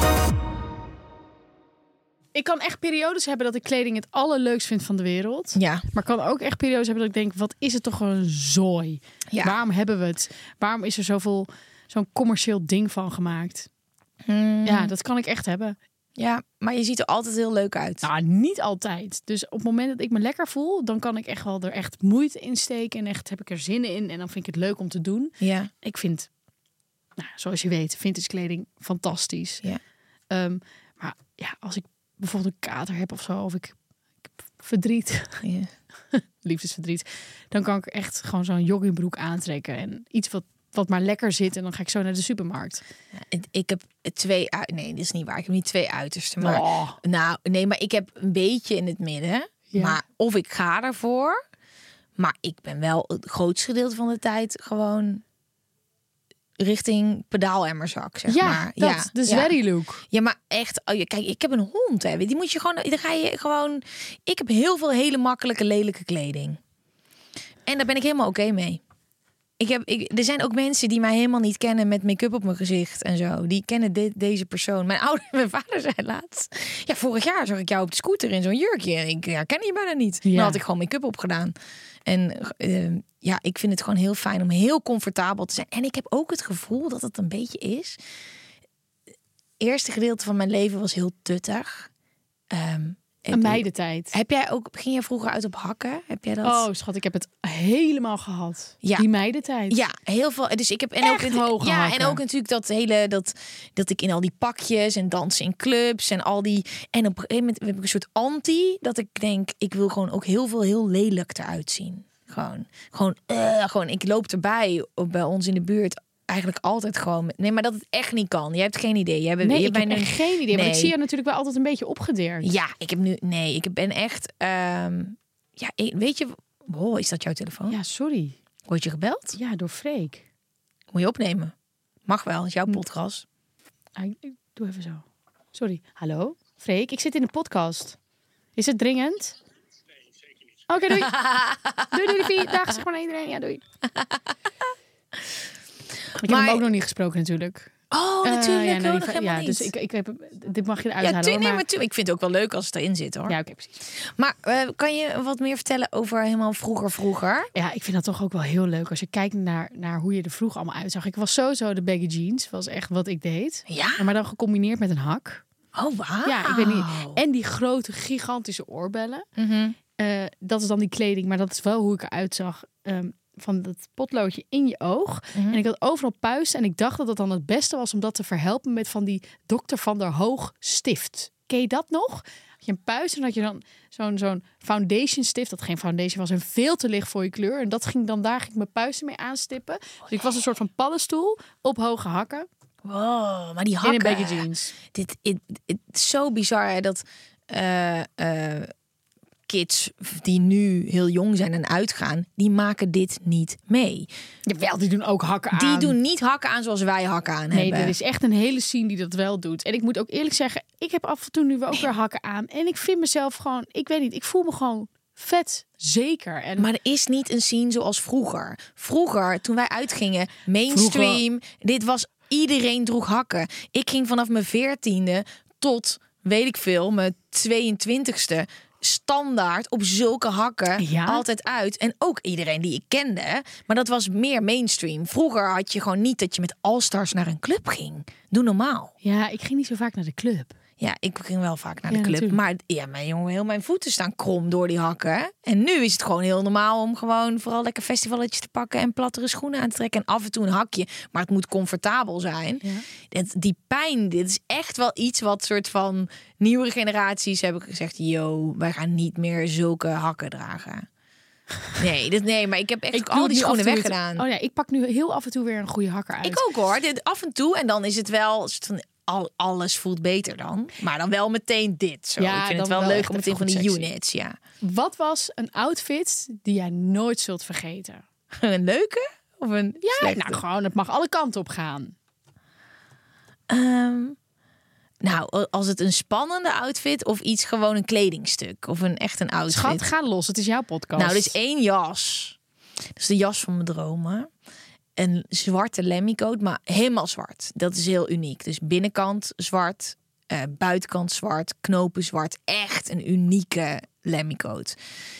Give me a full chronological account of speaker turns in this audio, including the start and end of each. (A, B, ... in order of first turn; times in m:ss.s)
0:02.3-0:13.7 A
0:05.5-0:05.8 B
0:14.2-0:14.9 B
0:14.6-0:15.8 A
0:16.2-0:18.0 B
0:18.0-0:26.3 A
0:25.4-0:25.7 B
0:27.2-0:29.6 A
0:30.3-0:35.4 A
0:35.4-0:35.7 B
0:36.1-0:42.8 A
0:43.2-0:51.4 B
0:46.4-0:47.0 A
0:49.7-0:50.0 A
0:52.2-0:55.2 B
0:56.6-0:59.5 B
0:58.3-1:00.0 A
1:00.1-1:06.6 B
1:07.6-1:08.8 B
1:09.6-1:21.5 B
1:20.2-1:20.6 A
1:22.0-1:28.0 B
1:29.6-1:31.9 B
1:32.5-1:36.6 B
1:33.3-1:34.1 A
1:36.4-1:39.8 A
1:39.7-2:00.9 B
1:41.0-1:42.2 A
1:59.4-2:02.5 A
2:02.4-2:07.8 B
2:07.7-2:08.4 A
2:08.7-2:09.4 B
2:09.3-2:10.2 A
2:10.9-2:11.5 B
2:12.1-2:13.2 B
2:14.0-2:18.0 A
2:18.6-2:19.3 A
2:20.7-2:21.3 A
2:21.1-2:21.9 B
2:21.9-2:23.6 A
2:26.2-2:27.7 A
2:26.2-2:26.6 B
2:27.9-2:29.7 B
2:28.2-2:31.6 A
2:31.0-2:33.3 B
2:33.3-2:33.8 A
2:34.2-2:37.5 B
2:37.5-2:45.4 A
2:43.7-2:44.0 B
2:45.7-2:47.2 B
2:46.2-2:49.2 A
2:49.4-2:49.8 B
2:50.0-3:12.5 A
2:55.3-2:55.6 B
3:12.8-3:18.7 B
3:13.8-3:14.7 A
3:19.5-3:24.1 B
3:24.4-3:26.0 A
3:25.5-3:27.9 B
3:27.5-3:36.7 A
3:36.6-3:58.9 B
3:40.7-3:41.2 A
3:50.8-3:51.2 A
3:59.0-4:00.5 A
4:00.8-4:20.9 B
4:01.9-4:02.4 A
4:21.8-4:24.2 B
4:22.9-4:26.4 A
4:26.2-4:34.4 B
4:32.2-4:33.9 A
4:34.6-4:38.0 A
4:38.4-4:40.4 B
4:39.8-4:41.9 A
4:43.5-4:44.2 B
4:45.0-4:49.8 B
4:49.5-4:51.3 A
4:51.0-4:52.4 B
4:53.0-4:54.3 B
4:55.0-5:04.7 B